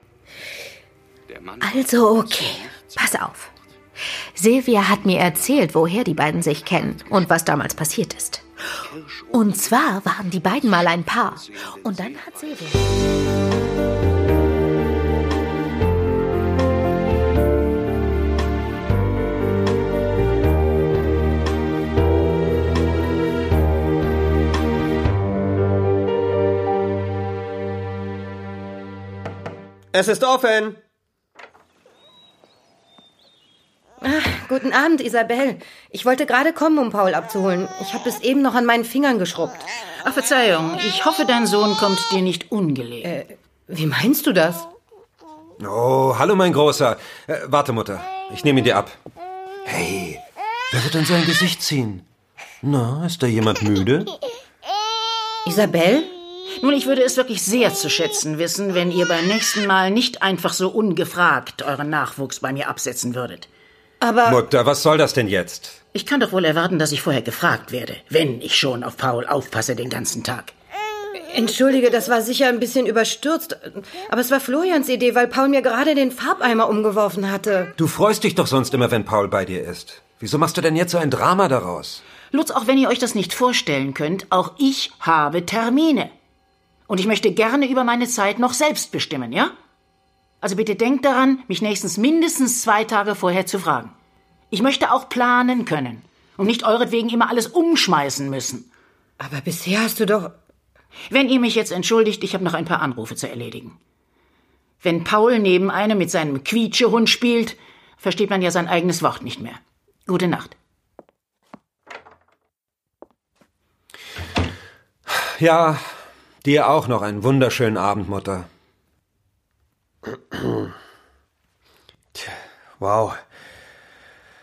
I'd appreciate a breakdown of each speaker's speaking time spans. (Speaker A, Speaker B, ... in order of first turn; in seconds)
Speaker A: 1.6-3.5, 4.3-8.4, 9.3-12.8
Speaker B: 29.9-30.8, 120.3-120.7, 122.1-123.2
Speaker C: 34.0-39.7, 43.0-44.7, 55.4-56.1, 64.0-64.4, 71.2-77.7, 99.2-100.3
Speaker D: 40.0-43.1, 56.6-63.5, 65.9-70.5, 82.3-86.1, 86.9-89.5, 90.4-93.9, 94.5-98.7, 101.1-103.8, 104.8-110.5
Speaker E: 45.6-49.0, 49.6-52.0, 52.6-54.1, 64.2-65.8, 77.8-82.0, 115.1-115.8, 116.4-118.5